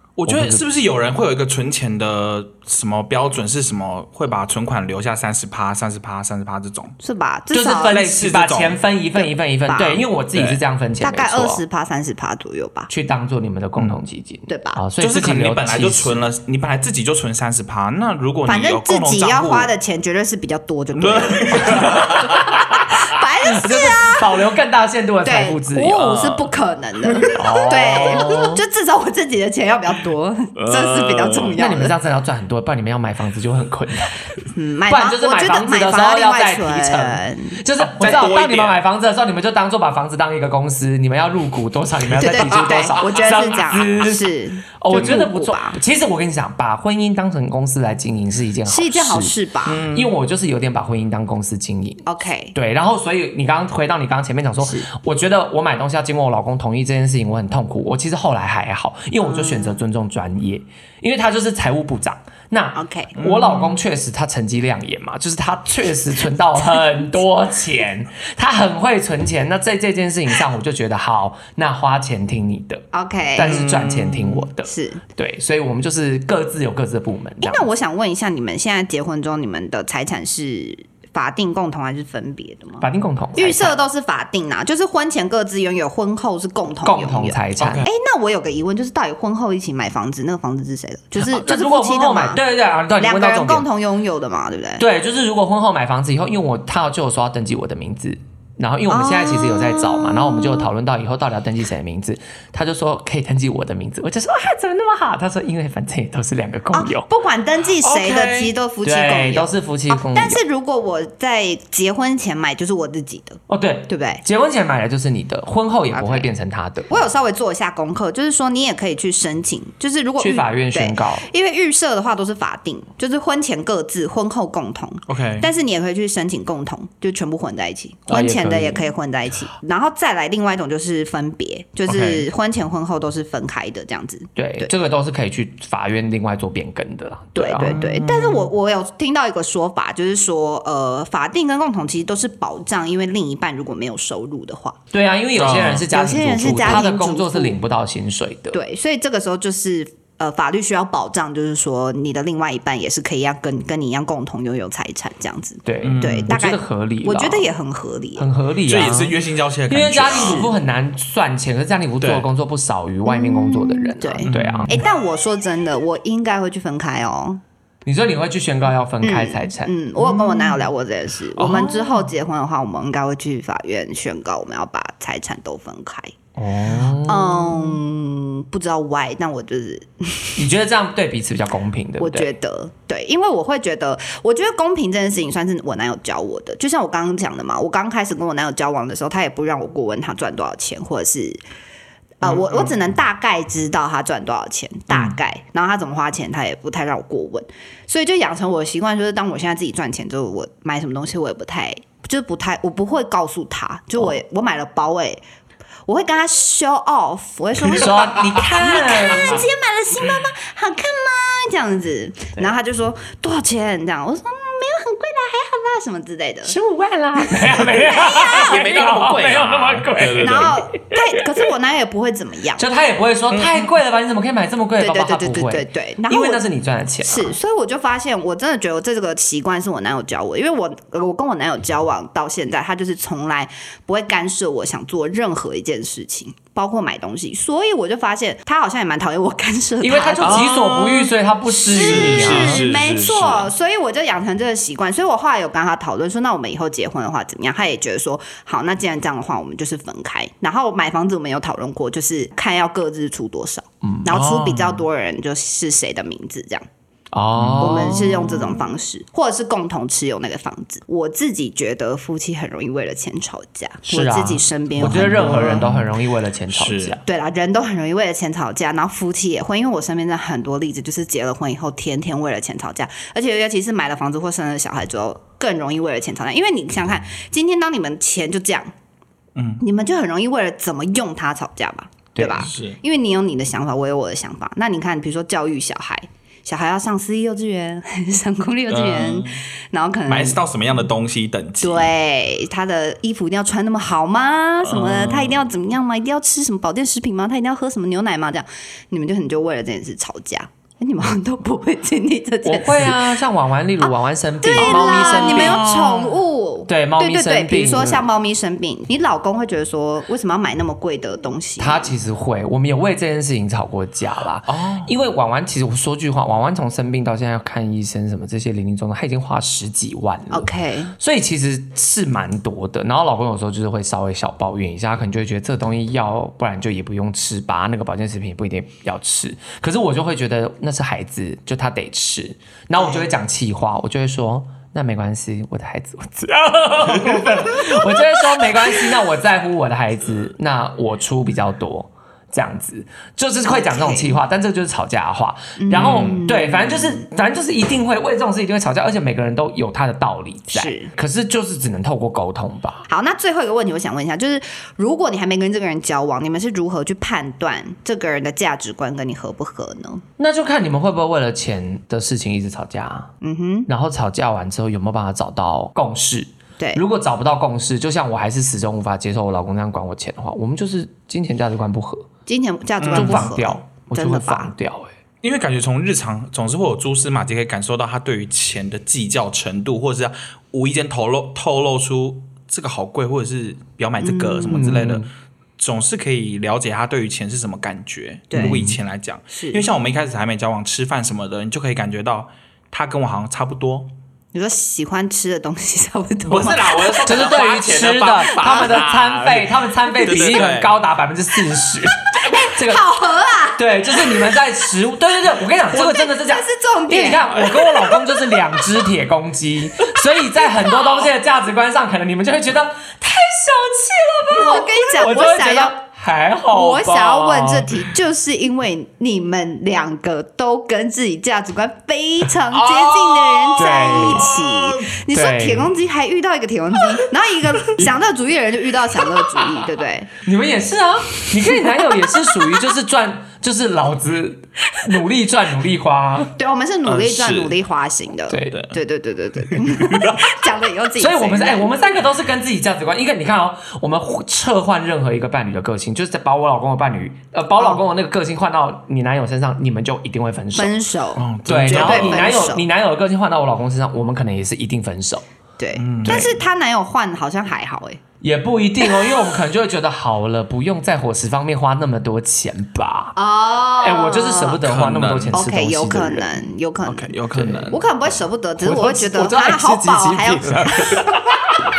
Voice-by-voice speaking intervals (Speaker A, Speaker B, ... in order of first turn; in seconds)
Speaker A: 0.2-7.0, 7.8-8.8, 10.3-10.6, 15.0-19.7, 21.0-22.6, 26.1-26.4, 27.1-28.5, 30.6-31.6, 37.8-38.8, 42.1-43.6, 49.7-50.2, 63.2-63.8, 73.4-74.5, 87.6-87.9, 107.8-108.5, 125.1-125.5, 131.9-132.3, 137.6-138.5, 145.4-145.9, 155.8-156.3, 158.7-160.5, 162.0-162.3, 164.3-164.7, 171.4-172.1, 192.2-192.8, 194.9-195.2, 218.1-220.6, 223.3-223.7, 240.2-241.1, 241.7-243.5, 254.1-254.8, 257.4-258.5, 264.8-265.9, 266.5-267.0, 279.4-279.6, 282.4-282.8, 288.7-289.4, 290.1-291.9, 294.6-295.4, 304.6-306.0, 314.5-314.9, 345.8-346.3, 372.8-373.3, 375.2-385.1, 385.6-393.9, 396.3-400.7, 407.4-407.7, 422.5-424.9, 436.9-437.6, 438.5-438.8, 439.5-440.3, 451.2-452.3, 455.8-456.3, 464.6-465.4, 466.9-467.8
Speaker B: 0.3-0.6, 7.5-11.6, 12.9-16.3, 21.7-22.1, 23.5-26.3, 27.3-28.6, 31.6-34.3, 34.9-77.7, 82.8-83.8, 86.8-87.9, 91.2-93.7, 94.8-107.1, 108.8-110.4, 113.5-116.9, 120.2-121.3, 128.1-128.8, 134.4-137.9, 144.9-148.6, 155.7-157.5, 158.2-159.2, 159.7-164.8, 167.8-170.2, 176.4-177.8, 180.4-182.3, 207.7-209.4, 216.4-221.5, 222.6-227.4, 239.8-242.7, 257.1-258.5, 263.9-267.0, 282.1-282.5, 302.4-306.0, 306.7-308.1, 311.6-352.9, 360.2-363.1, 363.7-372.1, 372.9-374.9, 384.5-385.1, 388.3-388.8, 397.0-402.8, 403.6-417.9, 423.6-424.4, 425.1-425.7, 430.2-436.3, 438.3-438.6, 441.0-450.8, 451.4-455.2, 456.1-456.3, 458.2-463.1, 463.8-466.4, 467.3-467.8, 468.6-471.2
Speaker C: 7.0-8.0, 9.2-10.1, 11.0-12.9, 14.5-14.8, 18.5-24.4, 25.2-31.9, 34.5-37.6, 42.2-45.8, 48.6-49.8, 52.1-52.5, 54.6-54.9, 59.2-59.8, 62.8-63.2, 72.9-73.6, 74.7-75.0, 77.4-92.4, 93.0-94.8, 98.9-100.7, 106.7-114.2, 115.9-116.3, 116.9-134.7, 137.3-144.8, 145.9-147.6, 148.5-158.3, 160.1-160.4, 163.1-167.4, 169.0-176.2, 177.0-180.4, 182.0-191.4, 192.2-205.2, 205.9-216.5, 217.2-218.6, 220.2-222.6, 224.8-226.4, 227.1-240.5, 241.5-256.6, 257.6-265.7, 267.1-278.7, 279.6-290.4, 291.6-303.1, 304.4-311.9, 320.3-320.9, 332.8-333.0, 343.5-344.2, 345.6-347.1, 350.5-350.9, 352.9-360.0, 363.2-363.7, 366.6-366.8, 372.3-374.5, 384.0-384.8, 388.3-388.6, 389.3-389.7, 394.3-397.2, 398.4-398.8, 402.2-404.4, 405.4-407.4, 414.3-415.8, 416.5-430.1, 431.8-432.1, 436.4-441.7, 450.6-452.6, 455.6-458.0, 458.8-459.2, 463.2-464.6, 465.3-467.2, 467.7-471.2